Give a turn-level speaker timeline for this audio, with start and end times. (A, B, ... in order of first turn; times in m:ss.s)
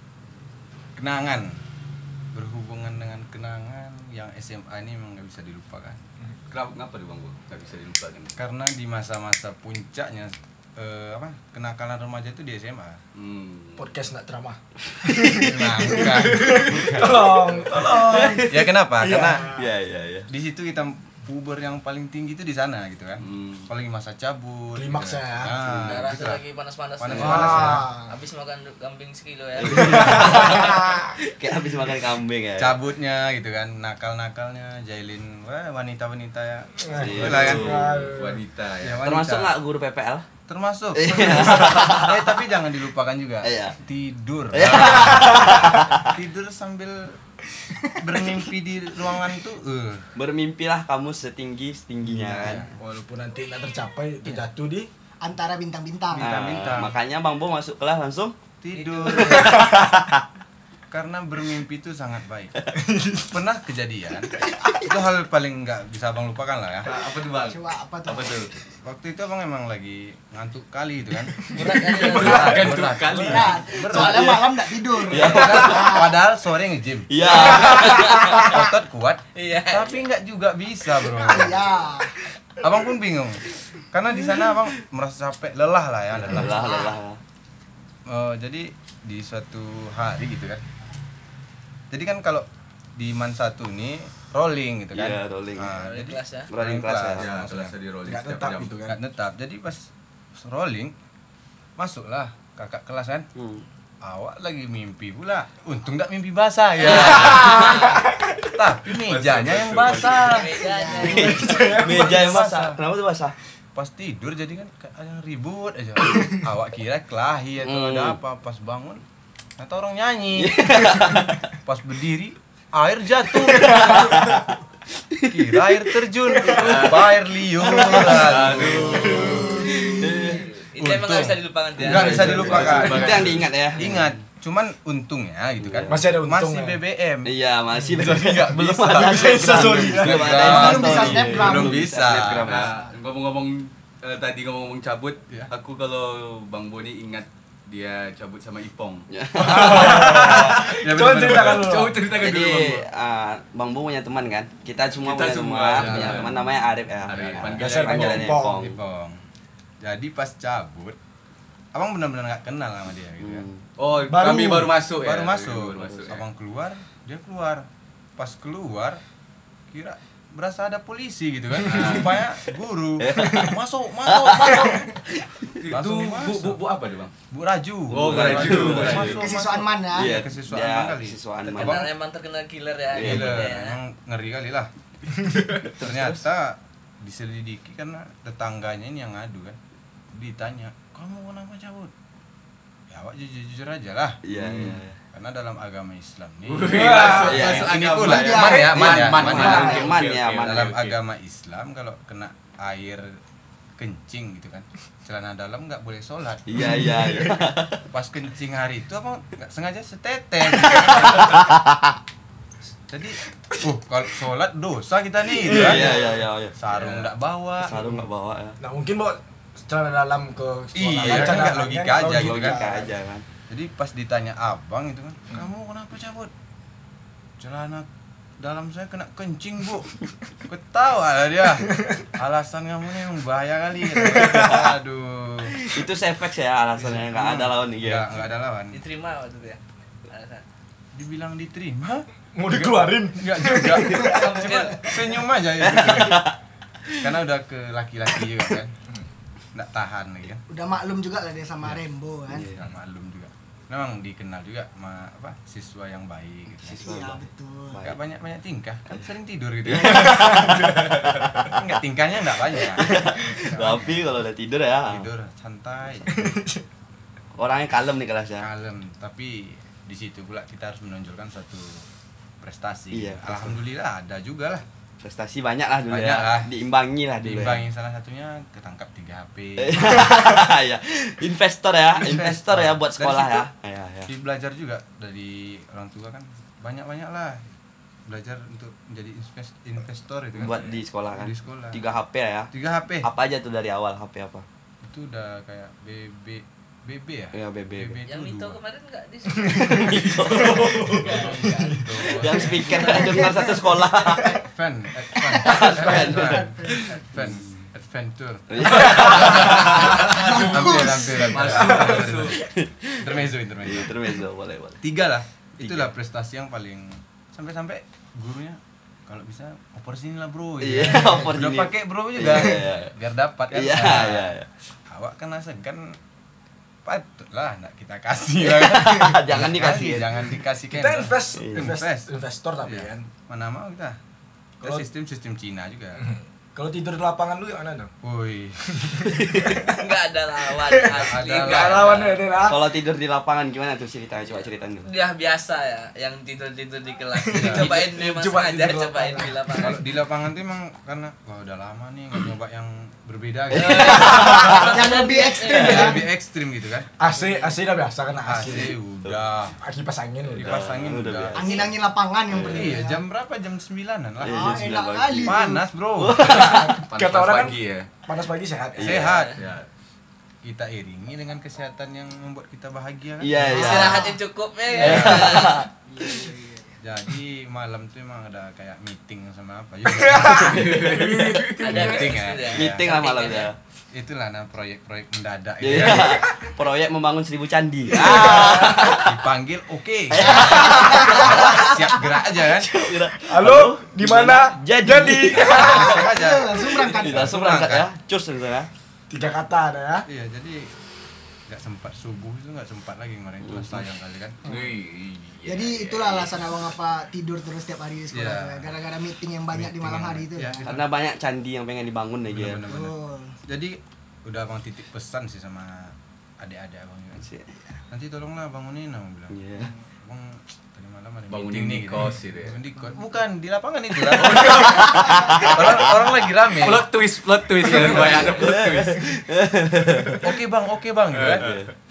0:01.0-0:01.6 A
0:02.3-0:06.0 A
0:06.5-0:08.3 B
0:08.4-0:13.0 A
0:13.2-0:13.9 B
0:13.8-0:19.7 C
0:15.3-0:19.5 A
0:18.0-0:18.7 D
0:19.5-0:20.3 D
0:20.3-0:26.4 A
0:23.2-0:23.7 B
0:24.8-0:25.9 C
0:25.8-0:30.7 E
0:27.0-0:27.9 A
0:27.1-0:28.1 C
0:29.6-0:32.8 D
0:29.7-0:31.1 C
0:30.0-0:30.5 A
0:32.6-0:37.8 A
0:36.8-0:38.4 C
0:37.0-0:37.9 D
0:37.1-0:39.1 B
0:38.8-0:39.6 A
0:39.0-0:40.3 D
0:40.5-0:47.2 A
0:40.9-0:42.4 D
0:43.4-0:43.8 D
0:44.5-0:46.1 D
0:45.2-0:45.6 C
0:48.0-0:50.1 A
0:50.2-0:52.8 D
0:52.0-0:54.9 C
0:52.3-0:52.7 A
0:55.2-0:56.6 F
0:56.1-0:57.0 A
0:56.2-0:58.4 D
0:58.6-0:59.7 A
0:58.8-0:59.1 E
0:58.9-1:00.2 D
0:59.3-0:59.8 C
1:00.9-1:02.6 A
1:02.8-1:03.3 C
1:03.2-1:06.9 A
1:06.9-1:08.5 B
1:07.4-1:08.5 F
1:08.8-1:14.4 A
1:11.4-1:12.9 C
1:11.6-1:12.4 E
1:12.0-1:13.7 B
1:13.1-1:16.2 F
1:13.9-1:16.0 D
1:15.1-1:21.7 A
1:17.1-1:18.6 D
1:17.2-1:18.6 C
1:19.4-1:20.1 E
1:21.1-1:22.2 F
1:22.6-1:26.8 A
1:26.2-1:27.2 D
1:26.5-1:27.0 F
1:28.1-1:30.6 A
1:31.9-1:37.7 A
1:34.9-1:35.7 D
1:35.7-1:36.5 E
1:36.5-1:37.3 D
1:37.2-1:38.7 B
1:38.0-1:39.0 C
1:38.9-1:41.0 A
1:41.8-1:43.3 A
1:43.4-1:43.6 D
1:44.0-1:50.6 A
1:46.9-1:47.3 D
1:47.0-1:48.2 C
1:47.1-1:48.0 E
1:48.9-1:50.4 B
1:50.0-1:51.8 E
1:50.6-1:51.3 F
1:51.0-1:53.4 D
1:51.1-1:52.4 C
1:51.8-1:52.8 A
1:53.8-1:59.0 A
1:57.6-1:58.2 D
1:59.6-2:01.1 A
2:00.4-2:01.5 D
2:01.6-2:04.3 A
2:03.4-2:04.4 D
2:05.1-2:05.6 D
2:05.3-2:09.7 A
2:06.5-2:07.1 B
2:07.6-2:10.4 D
2:07.8-2:10.0 B
2:09.4-2:10.2 F
2:10.3-2:12.5 E
2:10.8-2:17.4 A
2:11.8-2:14.2 D
2:12.2-2:13.6 B
2:12.7-2:13.3 C
2:15.6-2:16.1 D
2:15.9-2:16.8 C
2:17.2-2:22.8 D
2:17.8-2:20.7 C
2:18.0-2:22.6 A
2:20.3-2:21.9 F
2:22.4-2:32.8 B
2:22.5-2:22.9 F
2:29.1-2:30.6 D
2:29.4-2:32.1 C
2:29.7-2:31.8 A
2:32.1-2:38.8 D
2:35.0-2:36.4 B
2:35.8-2:36.4 A
2:37.1-2:38.4 B
2:37.1-2:37.6 A
2:37.5-2:38.7 C
2:38.6-2:39.2 A
2:39.8-2:41.0 A
2:41.7-2:43.4 A
2:43.2-2:43.6 D
2:43.8-2:46.2 B
2:44.1-2:44.8 C
2:45.0-2:49.0 A
2:49.7-2:54.8 A
2:51.7-2:52.2 B
2:53.0-2:53.5 D
2:54.1-2:55.6 D
2:55.6-2:57.1 B
2:55.7-2:56.6 A
2:57.3-3:01.9 A
2:57.9-2:59.3 B
2:58.0-2:59.2 D
2:59.1-3:00.2 F
2:59.9-3:01.9 D
3:01.5-3:03.8 E
3:02.9-3:03.4 D
3:03.0-3:04.7 A
3:05.3-3:05.7 B
3:05.8-3:06.2 D
3:05.8-3:09.6 A
3:10.1-3:11.9 A
3:12.9-3:14.2 A
3:14.2-3:15.0 D
3:14.3-3:14.8 B
3:15.1-3:19.9 A
3:16.5-3:21.0 B
3:16.7-3:17.5 C
3:17.2-3:17.8 D
3:18.0-3:19.9 F
3:18.6-3:20.8 D
3:20.4-3:23.2 A
3:23.8-3:26.8 A
3:26.5-3:27.8 D
3:26.6-3:27.4 C
3:27.9-3:31.5 A
3:30.6-3:32.0 D
3:32.9-3:38.0 A
3:35.4-3:36.3 C
3:35.4-3:36.9 D
3:37.6-3:38.6 D
3:37.8-3:38.1 C
3:38.6-3:43.0 C
3:40.7-3:42.6 A
3:41.0-3:43.2 D
3:43.5-3:46.3 A
3:47.4-3:47.9 A
3:48.4-3:55.6 A
3:54.0-3:54.4 C
3:54.3-3:54.6 D
3:55.6-3:58.1 D
3:56.8-3:58.8 A
3:58.7-4:00.4 E
4:00.9-4:06.3 A
4:02.4-4:04.5 C
4:04.0-4:04.9 E
4:05.6-4:07.1 D
4:07.0-4:08.7 A
4:09.5-4:10.4 A
4:10.5-4:12.5 F
4:12.4-4:17.2 A
4:16.6-4:17.2 D
4:16.8-4:17.9 F
4:17.8-4:20.7 A
4:19.6-4:21.8 D
4:20.0-4:20.6 C
4:21.5-4:24.1 A
4:22.5-4:25.1 D
4:24.9-4:26.4 A
4:26.1-4:26.6 C
4:27.4-4:28.5 D
4:28.4-4:31.9 A
4:32.4-4:34.6 A
4:32.9-4:33.6 D
4:35.0-4:37.6 D
4:35.9-4:36.5 A
4:37.2-4:40.2 A
4:39.6-4:44.1 D
4:42.0-4:43.5 A
4:44.1-4:47.5 A
4:48.1-4:51.8 A
4:50.4-4:52.5 D
4:52.5-4:53.1 A
4:53.0-4:54.4 D
4:54.8-4:58.6 A
4:57.3-4:58.0 D
4:58.1-5:03.6 E
4:59.5-5:00.9 D
4:59.6-5:02.4 C
5:01.0-5:02.9 A
5:02.0-5:04.4 D
5:04.3-5:12.4 A
5:05.2-5:07.6 D
5:05.4-5:06.8 F
5:08.5-5:10.0 D
5:09.3-5:11.6 F
5:11.3-5:12.4 B
5:11.5-5:12.0 C
5:12.4-5:14.8 D
5:13.0-5:14.0 A
5:14.8-5:24.4 A
5:15.6-5:15.9 D
5:20.6-5:22.9 D
5:23.5-5:24.5 D
5:24.9-5:26.0 A
5:26.8-5:34.0 A
5:28.4-5:30.3 D
5:30.7-5:33.1 C
5:31.4-5:31.7 D
5:34.6-5:36.0 A
5:34.6-5:34.9 C
5:36.0-5:37.9 C
5:38.0-5:39.1 A
5:38.8-5:39.7 C
5:39.2-5:39.6 D
5:39.7-5:42.1 E
5:40.6-5:42.7 C
5:40.9-5:42.1 A
5:42.0-5:44.9 D
5:44.8-5:49.8 E
5:47.2-5:49.6 C
5:47.4-5:47.8 A
5:49.6-5:54.5 A
5:53.5-5:55.0 D
5:53.6-5:56.0 E
5:54.1-5:56.0 F
5:55.5-5:56.9 A
5:55.5-5:55.8 D
5:57.0-5:58.8 C
5:57.2-5:57.5 E
5:58.2-5:59.6 A
5:59.6-6:00.7 C
6:00.4-6:01.7 A
6:00.4-6:01.7 D
6:01.4-6:03.0 F
6:02.3-6:02.8 D
6:02.4-6:04.6 A
6:04.2-6:06.9 D
6:04.2-6:05.6 F
6:05.2-6:06.5 A
6:06.2-6:09.0 C
6:06.9-6:07.9 B
6:08.8-6:09.2 D
6:08.8-6:09.4 A
6:09.0-6:09.4 E
6:09.4-6:09.7 B
6:10.4-6:14.0 A
6:13.2-6:14.2 D
6:13.4-6:13.7 C
6:13.5-6:15.6 E
6:13.6-6:14.1 F
6:14.8-6:15.7 D
6:14.8-6:15.4 A
6:15.8-6:16.8 F
6:16.8-6:20.9 A
6:20.0-6:22.1 C
6:20.3-6:21.9 B
6:21.6-6:23.5 E
6:21.6-6:22.9 A
6:22.5-6:23.6 D
6:23.9-6:26.3 A
6:25.6-6:29.2 D
6:27.9-6:28.9 C
6:28.4-6:32.8 A
6:30.1-6:36.1 D
6:30.4-6:31.4 F
6:33.2-6:35.8 C
6:35.3-6:37.9 A
6:35.6-6:37.4 F
6:36.8-6:38.7 D
6:39.1-6:40.1 C
6:40.1-6:40.7 A
6:41.5-6:44.4 A
6:43.4-6:43.7 D
6:44.4-6:46.5 B
6:45.5-6:50.7 F
6:48.1-6:48.7 A
6:49.5-6:50.9 A
6:50.6-6:52.6 D
6:52.3-6:57.3 A
6:52.6-6:53.4 F
6:57.2-6:57.5 D
6:57.9-6:59.4 A
6:59.3-6:59.7 D
7:00.0-7:06.9 A
7:01.3-7:02.6 B
7:04.1-7:05.9 D
7:04.2-7:05.5 B
7:06.6-7:09.1 B
7:07.6-7:08.3 A
7:07.6-7:10.3 D
7:10.2-7:11.5 A
7:11.1-7:11.7 B
7:11.3-7:11.7 D